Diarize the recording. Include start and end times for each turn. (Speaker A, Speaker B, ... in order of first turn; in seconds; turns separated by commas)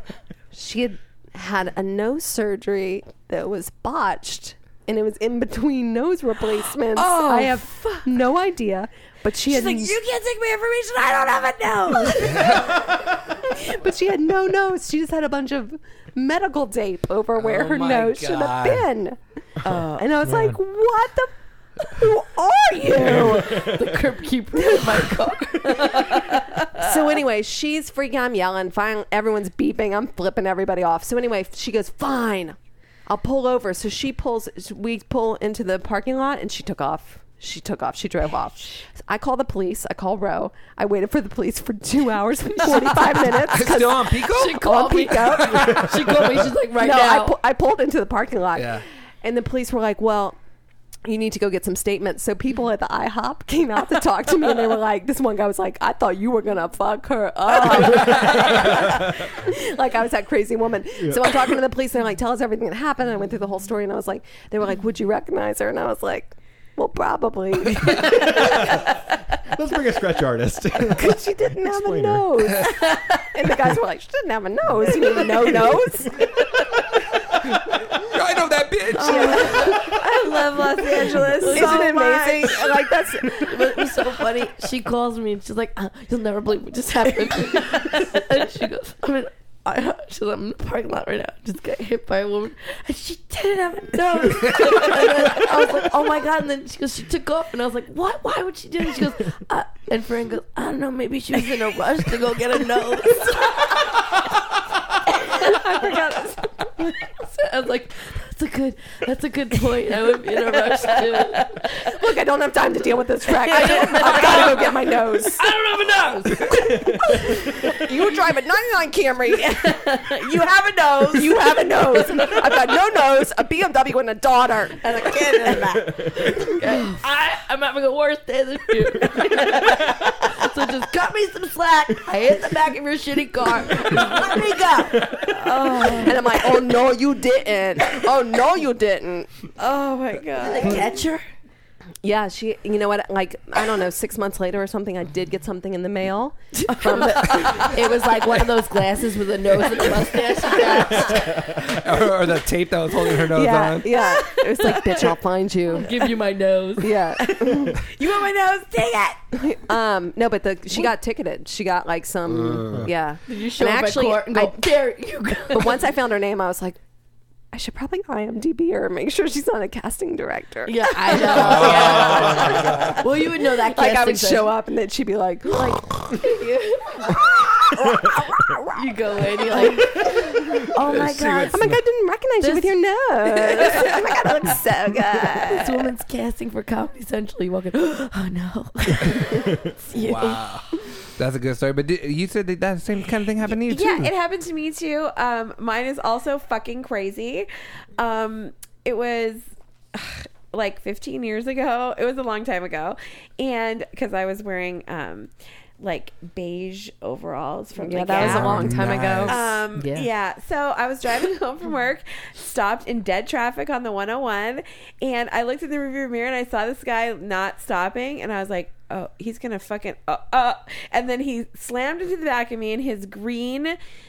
Speaker A: 0.5-10.0, Speaker B: 6.9-8.1, Speaker B: 9.4-12.8, Speaker A: 12.0-12.5, Speaker C: 12.3-12.6, Speaker A: 13.5-19.2, Speaker C: 17.4-18.9, Speaker B: 19.6-20.1, Speaker A: 19.9-23.7, Speaker D: 20.2-20.6, Speaker D: 22.9-23.9, Speaker E: 23.1-26.3, Speaker A: 24.6-25.0, Speaker A: 25.6-32.6, Speaker A: 33.1-46.2, Speaker C: 43.5-45.7, Speaker E: 44.3-47.4, Speaker A: 46.8-50.4, Speaker C: 48.5-48.8, Speaker A: 51.0-68.9, Speaker D: 57.7-59.0, Speaker D: 61.0-61.4, Speaker D: 68.1-68.9, Speaker D: 69.5-72.3, Speaker A: 70.9-76.3, Speaker D: 74.9-75.7, Speaker C: 78.0-79.4, Speaker B: 79.0-82.9, Speaker A: 79.0-80.0, Speaker E: 79.4-79.7, Speaker A: 81.3-83.8, Speaker E: 81.4-82.0, Speaker E: 83.4-103.8, Speaker B: 105.4-106.3, Speaker E: 107.0-111.7, Speaker A: 111.8-115.5, Speaker E: 113.5-114.7, Speaker E: 115.4-117.1, Speaker A: 116.7-119.8, Speaker B: 119.8-121.6, Speaker A: 121.1-126.5, Speaker B: 125.0-125.6, Speaker E: 126.2-136.1, Speaker A: 134.4-134.9, Speaker B: 135.3-136.2, Speaker A: 135.9-139.3, Speaker B: 139.6-140.8, Speaker E: 140.4-141.2, Speaker A: 142.0-148.1, Speaker E: 146.6-151.3, Speaker D: 151.1-151.5, Speaker C: 151.4-153.9, Speaker A: 153.2-155.9, Speaker B: 154.0-154.9, Speaker E: 155.7-157.0, Speaker A: 156.8-157.8, Speaker B: 157.2-159.2, Speaker A: 159.4-164.8, Speaker C: 162.3-162.9, Speaker E: 163.3-165.9, Speaker A: 165.5-166.8, Speaker A: 167.5-180.6, Speaker E: 170.7-174.5, Speaker D: 171.5-172.9, Speaker C: 171.7-172.7, Speaker E: 176.2-176.9, Speaker E: 178.8-181.6, Speaker C: 180.9-181.7, Speaker A: 181.5-185.9, Speaker E: 182.4-182.8, Speaker E: 185.5-190.5, Speaker C: 189.9-194.1, Speaker B: 193.4-223.8, Speaker A: 207.8-209.5, Speaker C: 208.2-209.4, Speaker E: 209.8-210.1